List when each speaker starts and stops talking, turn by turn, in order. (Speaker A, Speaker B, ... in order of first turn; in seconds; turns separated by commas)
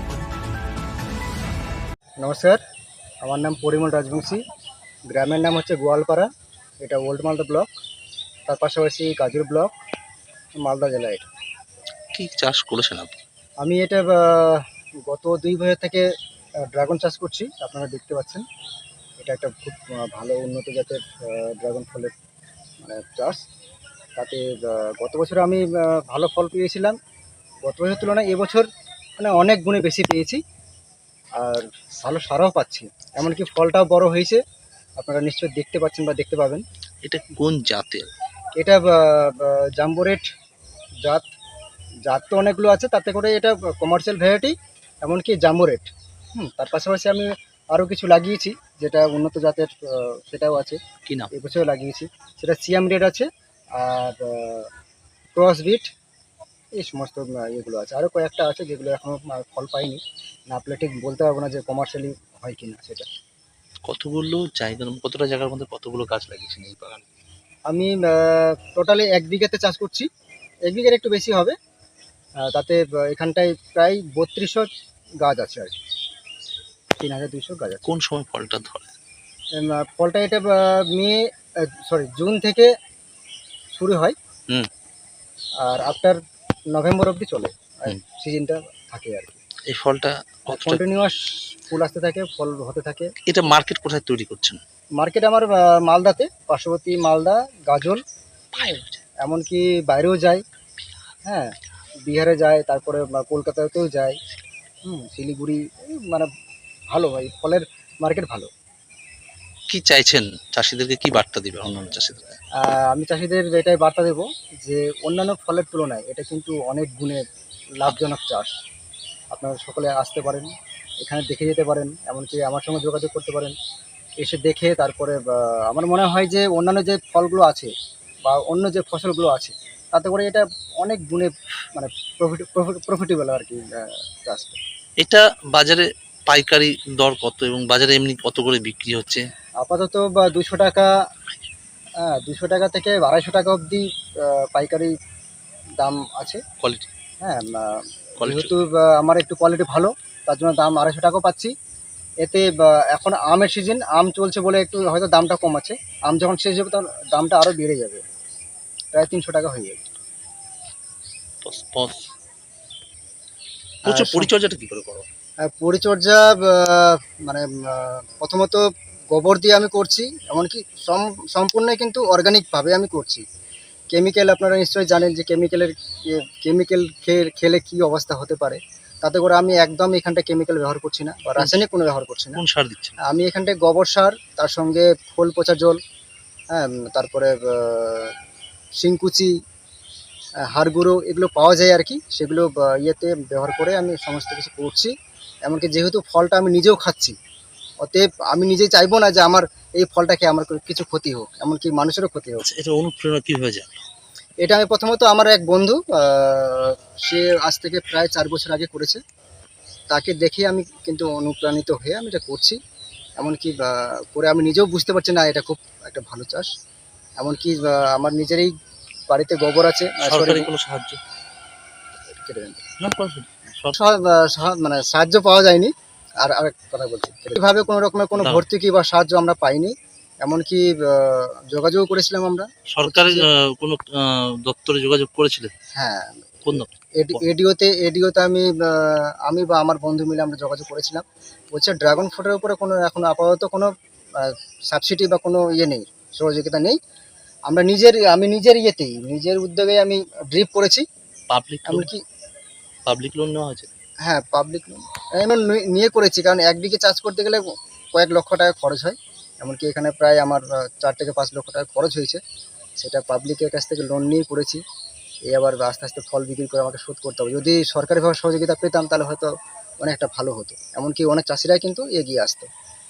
Speaker A: 2.2-2.6, Speaker A: 3.2-4.4, Speaker A: 5.1-6.3, Speaker A: 6.8-7.7, Speaker A: 8.5-9.7, Speaker A: 10.6-11.3, Speaker B: 12.1-13.2, Speaker A: 13.6-16.1, Speaker A: 16.7-18.4, Speaker A: 19.2-22.1, Speaker A: 22.8-23.4, Speaker A: 24.2-26.9, Speaker A: 27.6-28.7, Speaker A: 29.2-30.4, Speaker A: 31.4-34.4, Speaker A: 35.0-36.6, Speaker B: 37.0-38.1, Speaker A: 38.5-40.3, Speaker A: 42.0-50.8, Speaker A: 51.3-54.7, Speaker A: 55.3-55.9, Speaker A: 56.8-63.1, Speaker B: 63.8-67.0, Speaker A: 67.7-70.1, Speaker A: 70.7-71.5, Speaker A: 72.4-74.7, Speaker A: 75.2-75.7, Speaker A: 77.0-77.9, Speaker B: 77.8-78.9, Speaker A: 79.6-82.7, Speaker A: 83.7-84.2, Speaker A: 85.6-86.2, Speaker A: 86.7-89.4, Speaker B: 89.7-90.8, Speaker A: 90.5-93.1, Speaker B: 93.3-94.6, Speaker A: 95.0-98.0, Speaker B: 98.5-99.0, Speaker A: 99.2-100.4, Speaker A: 101.2-101.5, Speaker A: 102.0-104.2, Speaker A: 104.8-106.3, Speaker A: 106.9-108.5, Speaker B: 109.7-112.4, Speaker A: 112.6-117.2, Speaker A: 117.8-118.5, Speaker A: 119.3-120.5, Speaker A: 121.0-123.5, Speaker A: 124.2-127.7, Speaker A: 128.2-134.6, Speaker B: 135.0-139.2, Speaker A: 139.6-140.9, Speaker A: 142.0-144.9, Speaker A: 145.8-146.4, Speaker B: 146.6-146.9, Speaker A: 147.2-151.5, Speaker B: 148.2-148.5, Speaker A: 152.2-158.0, Speaker A: 158.9-159.8, Speaker B: 161.4-162.1, Speaker B: 163.8-165.1, Speaker A: 163.8-164.3, Speaker A: 165.4-173.2, Speaker A: 173.9-182.4, Speaker B: 181.4-181.6, Speaker B: 182.3-182.9, Speaker A: 183.0-185.8, Speaker A: 186.5-188.1, Speaker A: 188.8-189.3, Speaker A: 190.5-194.9, Speaker A: 195.4-197.2, Speaker A: 197.8-202.4, Speaker B: 202.4-203.8, Speaker A: 204.4-209.0, Speaker A: 209.9-212.6, Speaker A: 213.2-216.5, Speaker A: 217.2-218.5, Speaker A: 219.1-220.5, Speaker B: 220.0-221.0, Speaker A: 222.1-222.6, Speaker B: 222.8-223.8, Speaker A: 223.7-233.2, Speaker B: 228.2-228.4, Speaker B: 232.7-235.5, Speaker A: 235.7-246.8, Speaker B: 236.4-237.2, Speaker A: 247.5-250.8, Speaker B: 251.3-251.9, Speaker A: 251.7-252.0, Speaker B: 252.9-253.7, Speaker A: 254.1-262.2, Speaker A: 262.8-264.6, Speaker A: 265.3-269.3, Speaker A: 269.8-272.5